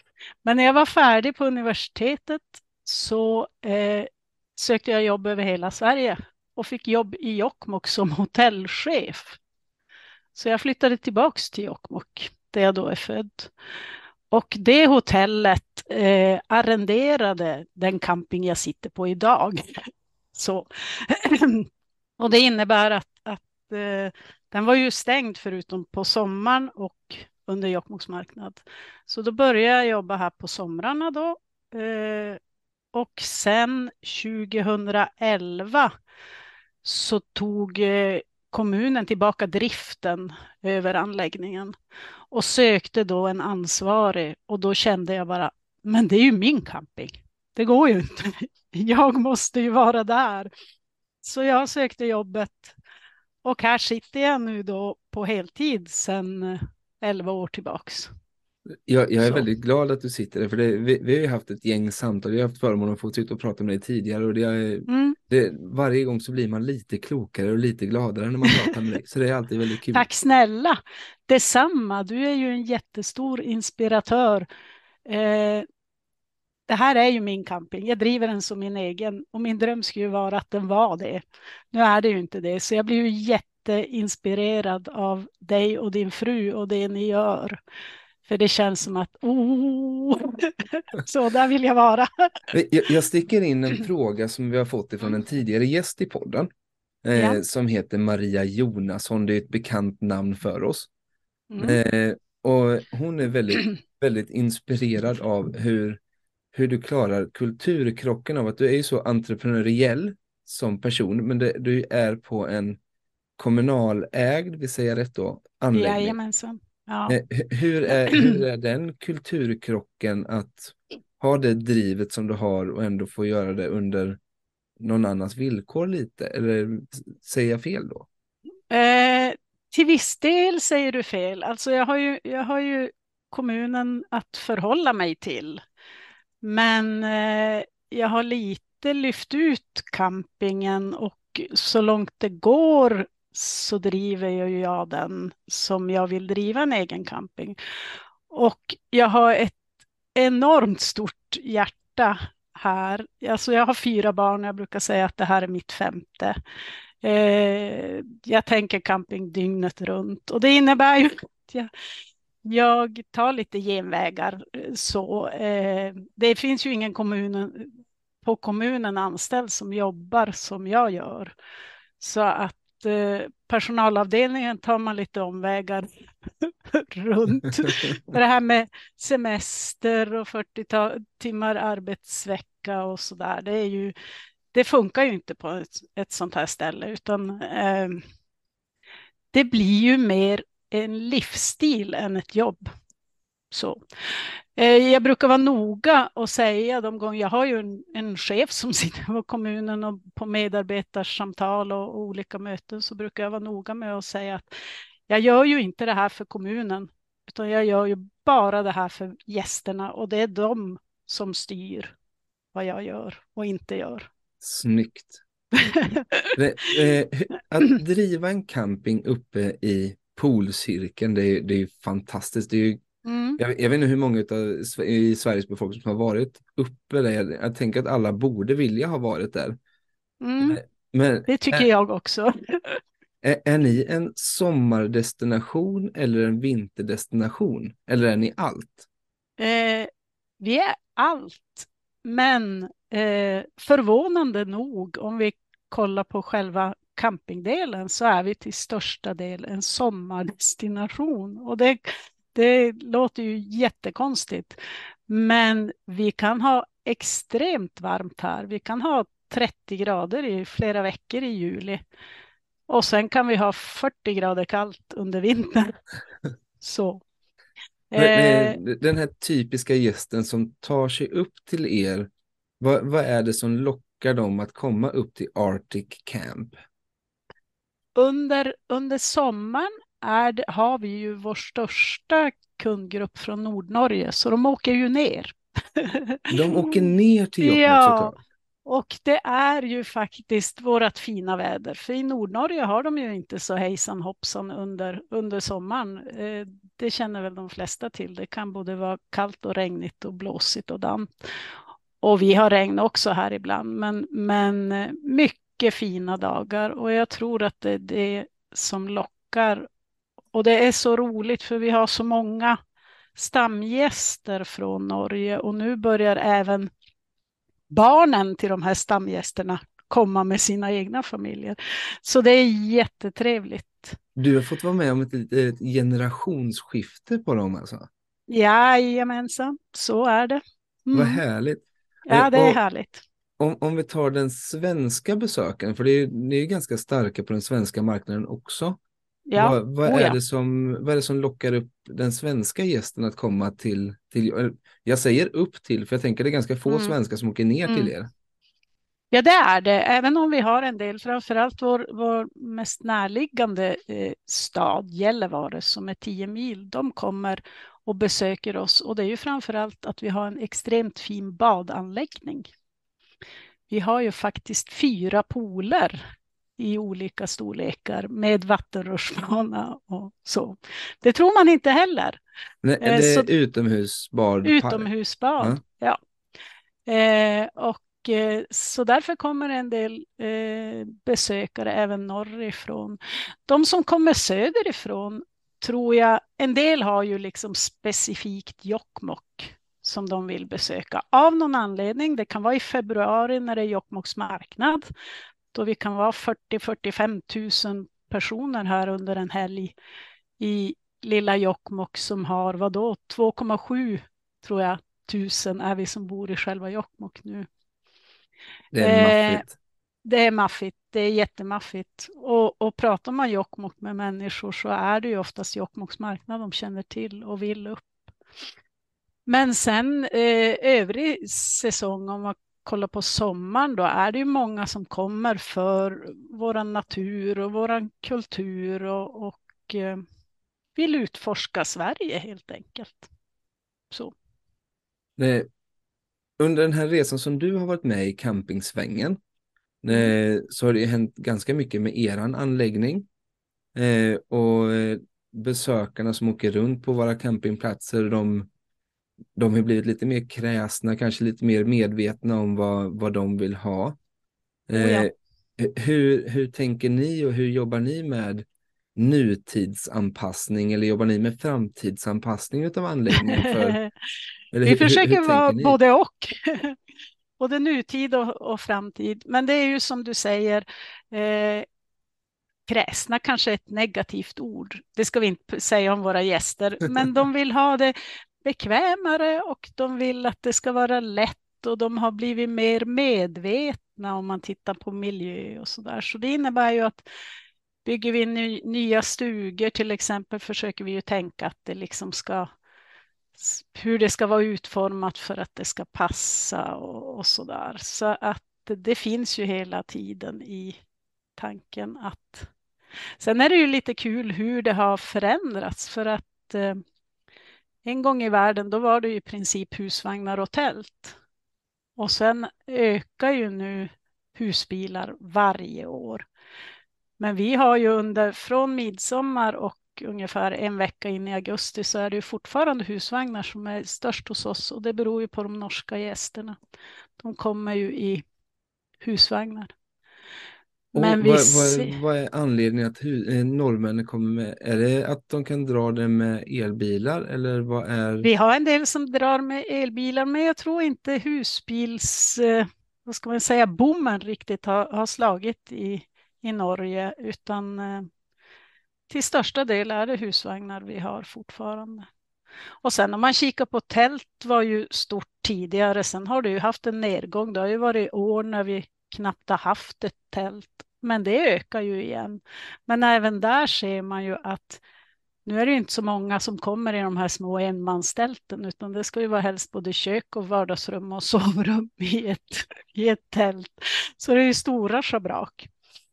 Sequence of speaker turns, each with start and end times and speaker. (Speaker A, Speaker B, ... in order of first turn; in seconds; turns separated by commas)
Speaker A: 0.5-9.4, Speaker A: 10.3-13.5, Speaker A: 14.3-19.6, Speaker A: 20.4-21.6, Speaker A: 22.2-32.4, Speaker A: 32.9-35.9, Speaker A: 36.8-41.7, Speaker A: 42.3-50.5, Speaker A: 51.2-52.8, Speaker A: 53.5-58.1, Speaker B: 58.9-70.1, Speaker A: 64.9-65.2, Speaker A: 69.9-74.5, Speaker A: 75.1-75.7, Speaker A: 76.7-81.2, Speaker A: 81.7-87.6, Speaker A: 88.2-92.1, Speaker B: 92.5-96.5, Speaker B: 97.0-100.9, Speaker A: 101.5-101.8, Speaker B: 101.6-106.0, Speaker B: 106.5-112.8, Speaker B: 113.4-116.2, Speaker A: 115.7-117.2, Speaker B: 117.1-124.2, Speaker A: 118.1-118.4, Speaker B: 124.8-128.1, Speaker A: 128.7-135.6, Speaker A: 136.4-147.6, Speaker A: 148.3-149.6, Speaker A: 150.2-156.4, Speaker A: 157.0-161.7, Speaker A: 162.4-167.7, Speaker A: 168.2-171.3, Speaker A: 172.0-175.8, Speaker A: 177.0-183.9, Speaker A: 184.5-188.0, Speaker A: 189.3-192.6, Speaker A: 193.5-193.8, Speaker A: 194.6-204.5, Speaker A: 205.1-211.9, Speaker A: 212.6-214.1, Speaker B: 214.4-215.2, Speaker B: 216.4-222.8, Speaker A: 223.1-223.4, Speaker B: 223.4-229.6, Speaker A: 230.2-230.6, Speaker B: 230.4-231.7, Speaker A: 231.3-232.8, Speaker B: 233.2-238.9, Speaker A: 239.4-239.9, Speaker A: 240.4-251.8, Speaker A: 252.3-254.6, Speaker A: 255.1-261.8, Speaker A: 262.7-265.7, Speaker A: 266.6-267.0, Speaker A: 267.9-268.6, Speaker B: 268.0-272.1, Speaker B: 272.6-276.6, Speaker A: 278.0-286.8, Speaker B: 286.3-288.2, Speaker A: 287.4-288.1, Speaker A: 288.7-301.1, Speaker A: 302.0-309.7, Speaker A: 310.3-312.6, Speaker A: 313.2-316.7, Speaker A: 317.7-324.0, Speaker B: 324.2-327.9, Speaker A: 328.3-331.2, Speaker B: 330.9-332.6, Speaker A: 332.1-333.0, Speaker B: 333.4-338.8, Speaker A: 339.3-340.2, Speaker B: 339.4-348.1, Speaker A: 346.7-346.9, Speaker A: 349.1-362.4, Speaker A: 363.7-366.0, Speaker A: 366.6-372.2, Speaker B: 372.6-374.9, Speaker A: 372.8-373.3, Speaker A: 374.4-376.0, Speaker A: 376.9-394.8, Speaker A: 395.5-399.8, Speaker A: 400.4-407.5, Speaker B: 408.7-409.5, Speaker A: 408.8-409.4, Speaker A: 410.1-417.9, Speaker A: 419.3-430.0, Speaker A: 430.8-433.0, Speaker B: 435.2-435.5, Speaker B: 436.4-439.2, Speaker B: 439.8-443.1, Speaker B: 443.8-448.5, Speaker B: 449.4-454.0, Speaker B: 454.7-463.8, Speaker A: 454.8-455.1, Speaker A: 463.4-463.9, Speaker B: 464.5-465.8, Speaker A: 464.6-466.8, Speaker A: 467.4-471.7, Speaker A: 472.7-487.0, Speaker A: 487.9-492.5, Speaker A: 493.4-500.8, Speaker A: 501.4-502.5, Speaker A: 503.2-506.8, Speaker A: 507.9-511.1, Speaker A: 512.0-516.2, Speaker A: 517.2-526.6, Speaker A: 527.2-528.2, Speaker A: 529.0-529.7, Speaker B: 530.9-538.3, Speaker A: 531.0-532.0, Speaker A: 538.2-548.0, Speaker A: 549.1-552.0, Speaker A: 552.8-564.8, Speaker A: 565.5-575.7